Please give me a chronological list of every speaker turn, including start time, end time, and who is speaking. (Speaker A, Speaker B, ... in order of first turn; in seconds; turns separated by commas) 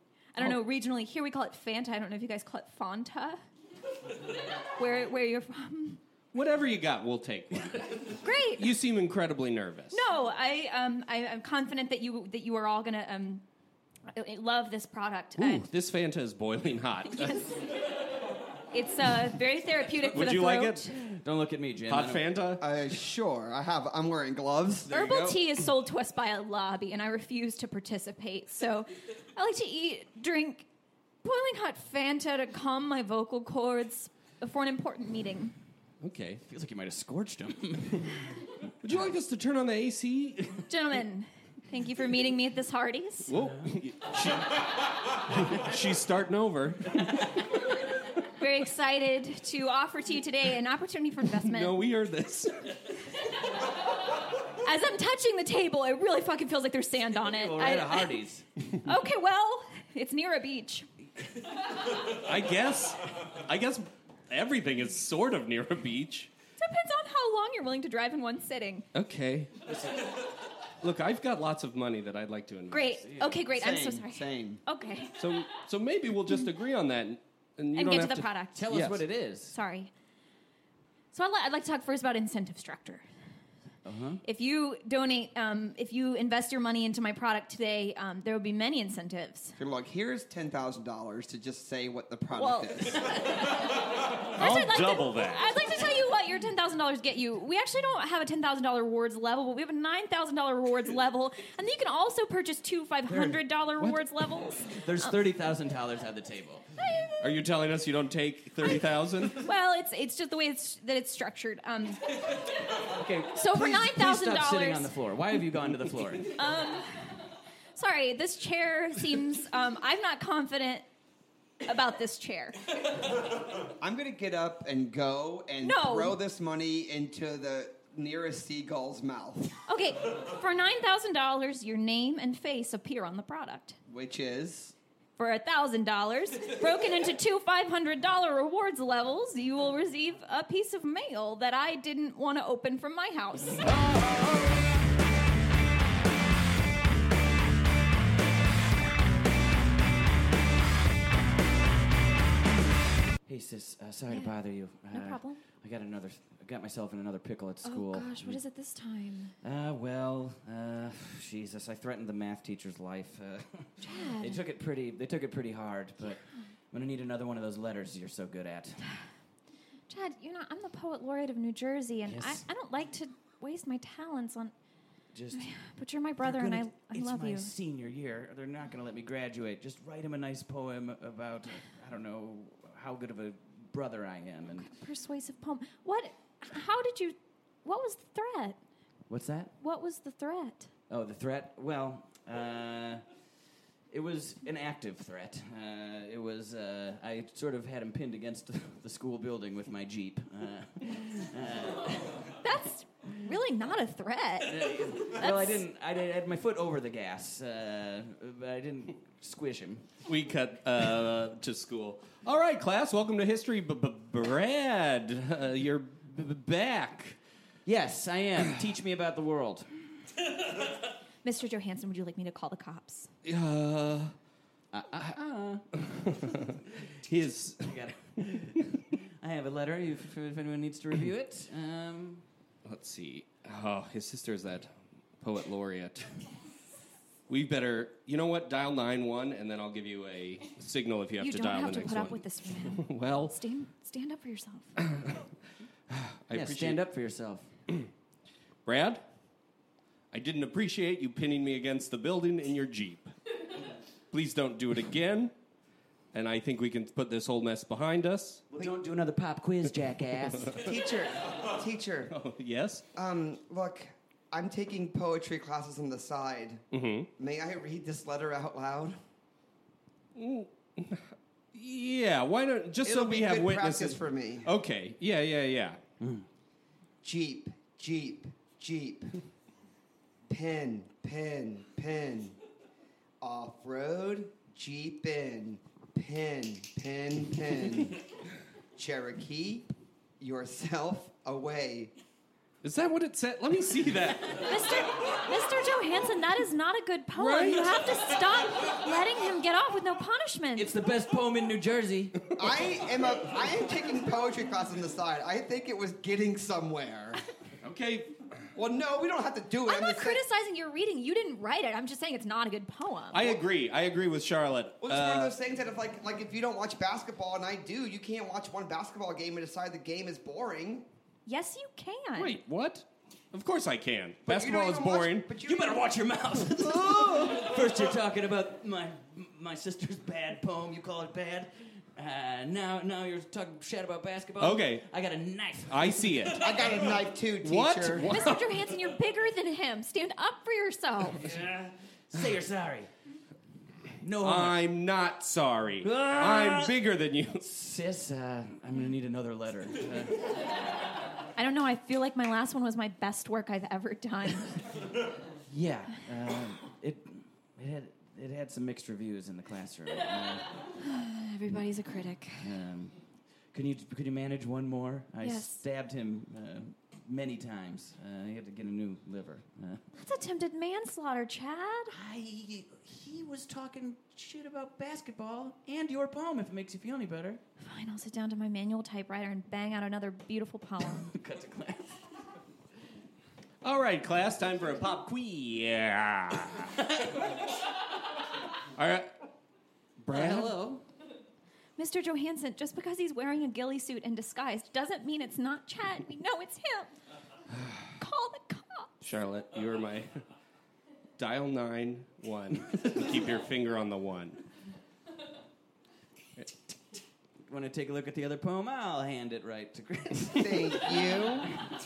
Speaker A: 0.3-3.4, Speaker A: 4.7-6.0, Speaker B: 6.3-10.0, Speaker A: 8.2-8.7, Speaker A: 9.9-13.4, Speaker A: 14.1-15.6, Speaker B: 15.4-17.5, Speaker A: 17.1-17.7, Speaker A: 18.7-21.0, Speaker B: 20.1-21.0, Speaker C: 21.0-22.3, Speaker B: 21.9-22.6, Speaker D: 22.6-25.1, Speaker A: 24.9-30.7, Speaker B: 24.9-25.4, Speaker A: 31.2-35.5, Speaker B: 36.0-36.4, Speaker C: 36.4-38.2, Speaker B: 38.8-40.6, Speaker A: 40.7-43.3, Speaker B: 43.3-47.4, Speaker C: 43.4-43.7, Speaker A: 48.4-51.8, Speaker B: 51.4-52.9, Speaker A: 54.6-58.2, Speaker C: 57.2-58.4, Speaker A: 58.8-60.9, Speaker B: 62.0-66.3, Speaker A: 66.6-68.9, Speaker B: 68.9-70.1, Speaker B: 70.8-73.0, Speaker A: 72.7-75.2, Speaker C: 73.0-73.4, Speaker D: 73.5-74.6, Speaker B: 75.2-79.0, Speaker A: 77.7-78.7, Speaker C: 78.5-79.5, Speaker A: 79.5-79.9, Speaker A: 81.1-83.0, Speaker C: 83.8-84.2, Speaker A: 84.2-89.5, Speaker D: 89.6-93.2, Speaker A: 92.3-105.2, Speaker B: 94.2-95.7, Speaker C: 103.1-103.4, Speaker C: 104.8-106.7, Speaker A: 106.8-107.2, Speaker B: 107.2-109.4, Speaker A: 108.6-112.2, Speaker C: 112.8-116.3, Speaker A: 113.3-114.9, Speaker A: 116.2-117.1, Speaker A: 117.8-120.8, Speaker A: 121.6-122.7, Speaker D: 123.7-129.6, Speaker A: 125.6-126.1, Speaker A: 129.7-133.8, Speaker D: 133.9-134.7, Speaker A: 135.2-143.7, Speaker C: 153.2-158.4, Speaker A: 154.9-155.4, Speaker A: 157.6-159.3, Speaker C: 159.4-168.8, Speaker A: 163.8-164.4, Speaker A: 169.9-174.5, Speaker C: 172.1-172.4, Speaker C: 175.1-175.5, Speaker A: 175.3-177.5, Speaker C: 176.2-184.7, Speaker A: 184.6-188.6, Speaker C: 189.1-189.5, Speaker A: 189.6-190.7, Speaker C: 190.9-193.0, Speaker C: 193.9-202.2, Speaker A: 202.4-205.6, Speaker C: 204.4-209.9, Speaker B: 210.1-217.2, Speaker C: 217.7-219.7, Speaker A: 221.2-223.1, Speaker B: 223.2-224.1, Speaker C: 224.7-225.8, Speaker B: 226.0-227.7, Speaker C: 227.6-232.2, Speaker B: 232.6-236.1, Speaker B: 237.3-243.4, Speaker A: 241.2-244.8, Speaker B: 244.8-245.2, Speaker B: 245.9-246.8, Speaker C: 246.3-247.5, Speaker B: 248.7-249.0, Speaker B: 250.1-253.1, Speaker B: 254.1-255.3, Speaker B: 256.1-258.4, Speaker C: 258.5-260.6, Speaker D: 260.6-262.1, Speaker B: 262.1-262.8, Speaker D: 262.9-266.6, Speaker B: 266.7-267.1, Speaker D: 267.2-269.0, Speaker B: 270.1-275.8, Speaker D: 272.8-274.5, Speaker C: 276.0-276.2, Speaker D: 277.0-279.2, Speaker D: 280.3-282.4, Speaker D: 283.2-288.0, Speaker D: 288.7-291.9, Speaker B: 292.6-294.8, Speaker A: 294.4-300.7, Speaker B: 297.1-297.9, Speaker C: 300.6-302.2, Speaker D: 302.4-307.2, Speaker B: 307.6-308.2, Speaker D: 308.5-310.2, Speaker A: 309.6-313.4, Speaker B: 313.1-315.3, Speaker D: 314.8-320.9, Speaker A: 321.2-322.4, Speaker B: 322.1-325.3, Speaker D: 324.2-325.9, Speaker C: 325.4-336.4, Speaker B: 326.6-327.5, Speaker B: 334.4-334.9, Speaker B: 335.7-336.7, Speaker D: 336.4-338.2, Speaker B: 337.4-338.5, Speaker A: 338.0-341.3, Speaker C: 341.1-342.9, Speaker C: 344.0-344.6, Speaker B: 344.2-347.4, Speaker C: 345.8-346.7, Speaker C: 347.4-350.3, Speaker A: 351.4-354.5, Speaker C: 355.5-360.5, Speaker A: 360.8-362.5, Speaker C: 362.4-363.0, Speaker C: 363.5-369.9, Speaker A: 365.2-365.6, Speaker A: 369.9-371.9, Speaker C: 371.9-377.4, Speaker A: 377.6-381.1, Speaker C: 381.0-382.0, Speaker B: 383.6-386.8, Speaker B: 388.8-389.1, Speaker B: 390.0-390.5, Speaker C: 390.1-390.8, Speaker A: 391.8-396.9, Speaker A: 398.0-398.9, Speaker B: 399.0-400.2, Speaker B: 401.2-404.4, Speaker C: 407.5-411.1, Speaker D: 410.3-411.5